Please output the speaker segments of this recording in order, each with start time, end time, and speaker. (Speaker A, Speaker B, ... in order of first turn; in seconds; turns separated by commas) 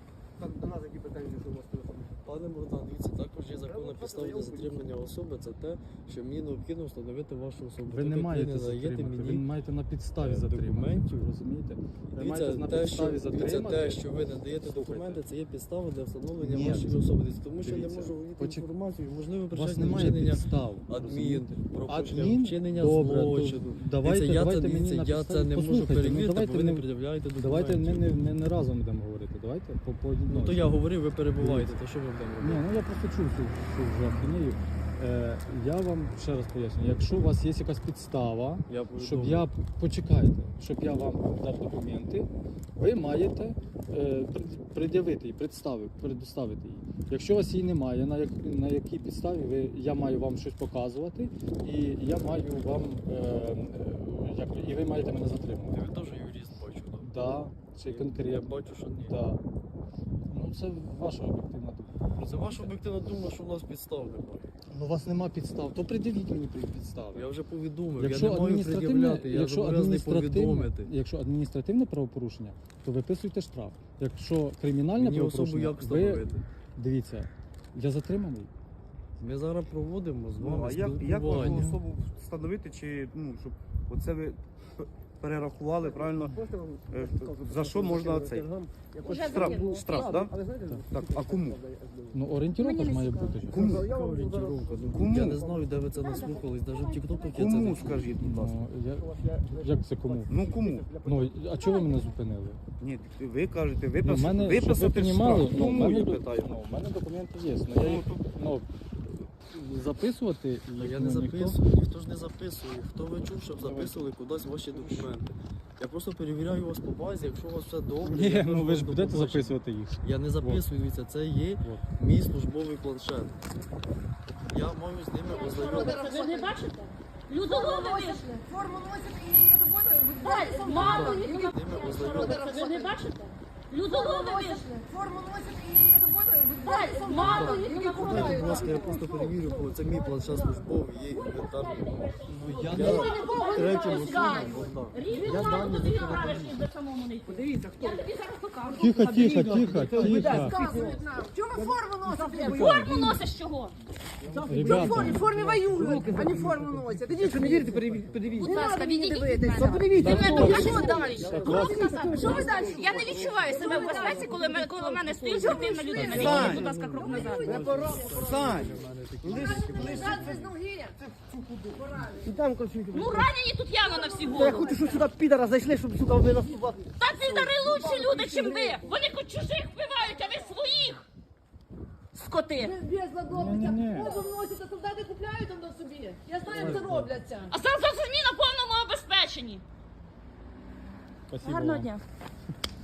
Speaker A: 0.4-2.3, Speaker B: 2.2-9.5, Speaker A: 3.6-4.9, Speaker C: 7.8-15.2, Speaker B: 10.2-11.2, Speaker B: 12.1-28.1, Speaker C: 16.4-17.1, Speaker C: 17.6-18.7, Speaker C: 19.5-30.7, Speaker B: 30.3-32.6, Speaker C: 31.4-31.8, Speaker C: 32.4-55.9, Speaker B: 38.7-39.5, Speaker B: 55.7-59.2, Speaker C: 57.0-59.4, Speaker C: 60.3-62.7, Speaker B: 62.1-64.5, Speaker C: 64.7-67.3, Speaker B: 67.1-70.9, Speaker C: 68.0-78.5, Speaker B: 75.0-76.5, Speaker B: 79.2-81.7, Speaker D: 80.4-86.4, Speaker C: 81.4-81.8, Speaker A: 85.8-92.2, Speaker D: 86.9-88.5, Speaker E: 89.0-90.1, Speaker D: 89.2-91.6, Speaker C: 92.1-93.8, Speaker E: 92.6-93.4, Speaker D: 93.5-93.9, Speaker B: 93.5-98.2, Speaker A: 93.6-96.3, Speaker D: 94.9-95.4, Speaker E: 95.9-98.0, Speaker D: 97.3-98.6, Speaker C: 98.1-102.6, Speaker A: 99.0-101.5, Speaker D: 100.3-100.9, Speaker E: 101.6-102.2, Speaker D: 102.8-106.5, Speaker C: 104.0-111.6, Speaker D: 107.8-108.2, Speaker B: 110.8-123.4, Speaker C: 113.5-114.0, Speaker C: 118.0-120.7, Speaker B: 124.5-126.1, Speaker E: 125.3-128.3, Speaker F: 125.6-126.5, Speaker F: 127.5-131.5, Speaker E: 130.2-134.8, Speaker B: 130.7-132.8, Speaker F: 132.1-132.9, Speaker F: 133.9-140.8, Speaker E: 136.6-139.1, Speaker B: 137.1-145.8, Speaker E: 141.0-149.5, Speaker C: 142.3-143.2, Speaker F: 142.8-146.6, Speaker A: 145.8-146.3, Speaker A: 147.4-147.9, Speaker C: 148.8-150.6, Speaker F: 149.0-153.2, Speaker A: 149.3-153.2, Speaker E: 152.5-153.8, Speaker A: 154.2-158.8, Speaker F: 154.4-168.6, Speaker C: 154.5-156.1, Speaker D: 154.7-155.1, Speaker C: 157.5-158.4, Speaker E: 158.4-167.8, Speaker A: 159.4-165.9, Speaker C: 159.9-162.4, Speaker D: 160.2-161.0, Speaker D: 162.5-164.2, Speaker D: 165.9-166.8, Speaker B: 165.9-170.6, Speaker A: 167.4-168.1, Speaker D: 167.9-170.4, Speaker F: 169.4-171.0, Speaker A: 171.1-173.3, Speaker F: 171.7-172.4, Speaker E: 172.9-174.9, Speaker F: 173.8-175.2, Speaker A: 174.2-176.9, Speaker F: 176.2-176.8, Speaker E: 177.0-181.1, Speaker F: 177.3-178.9, Speaker A: 178.1-178.6, Speaker E: 182.1-182.8, Speaker F: 182.6-187.6, Speaker C: 183.3-184.2, Speaker C: 186.5-187.1, Speaker B: 186.6-187.0, Speaker E: 187.5-189.6, Speaker C: 191.3-191.9, Speaker E: 191.4-192.0